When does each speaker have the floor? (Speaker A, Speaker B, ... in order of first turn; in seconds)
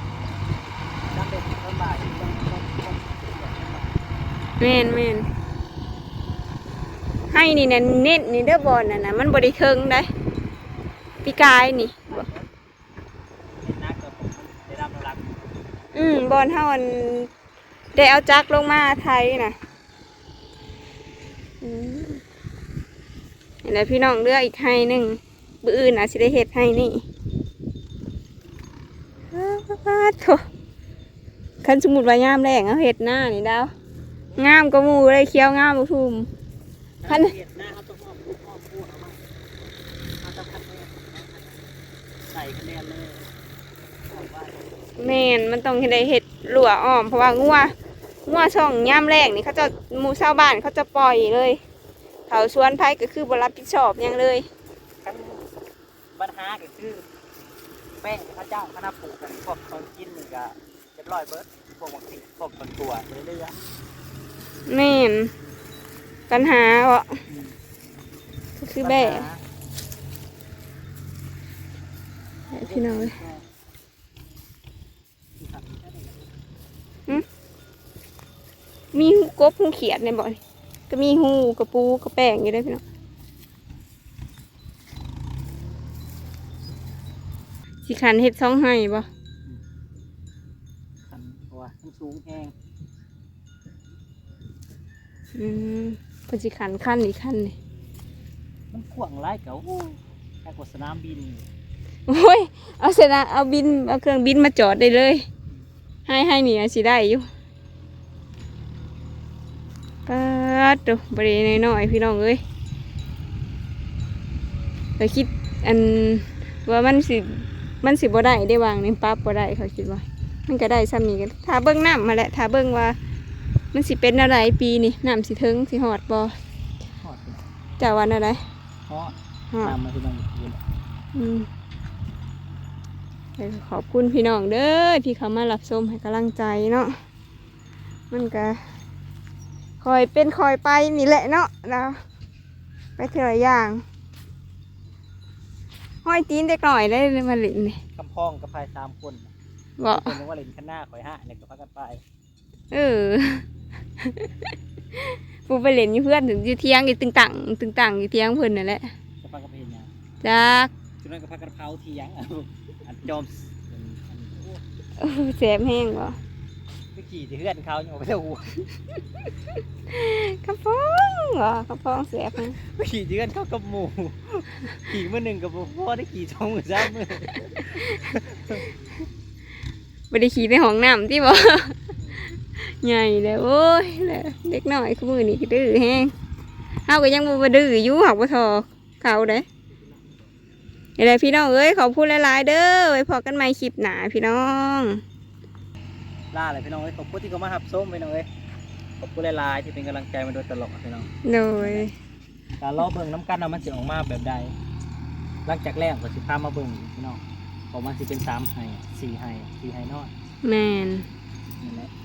Speaker A: 1.1-4.0, 12.1-12.5, 13.6-15.5, 37.0-39.2, 40.2-41.7, 42.3-43.2, 44.1-44.7, 55.0-55.5, 56.2-57.0, 58.0-63.6, 67.3-67.6, 68.8-69.4, 72.5-73.5, 75.4-76.4, 91.1-92.5, 98.7-101.5, 127.0-127.4, 128.9-130.6, 148.0-149.3, 149.9-152.0, 159.2-159.9, 161.0-164.6, 166.9-168.7, 172.6-178.8, 189.7-190.1, 196.3-198.3, 199.0-201.9, 202.6-204.6, 205.5-207.2, 207.7-210.1, 211.6-211.9
Speaker B: 4.6-5.3, 7.3-10.1, 11.2-12.3, 15.9-17.3, 17.9-19.6, 21.6-22.2, 23.6-27.0, 29.3-30.4, 31.6-33.7, 34.4-36.3, 37.1-37.3, 45.0-47.7, 48.3-51.6, 52.3-54.5, 64.7-65.3, 66.3-67.2, 68.6-69.2, 72.5-73.1, 78.9-80.4, 80.9-82.8, 87.9-89.1, 95.3-97.5, 102.1-105.3, 106.1-107.3, 110.1-112.4, 115.0-123.0, 123.7-126.4, 127.8-128.4, 131.1-131.5, 133.4-137.0, 138.1-138.6, 139.8-142.0, 143.0-143.8, 146.1-147.8, 149.8-150.2, 152.7-153.4, 154.0-158.9, 160.2-160.7, 165.0-166.2, 169.9-172.6, 180.1-181.8, 182.6-186.1, 186.9-189.5, 191.0-195.0, 201.2-201.9, 210.4-211.1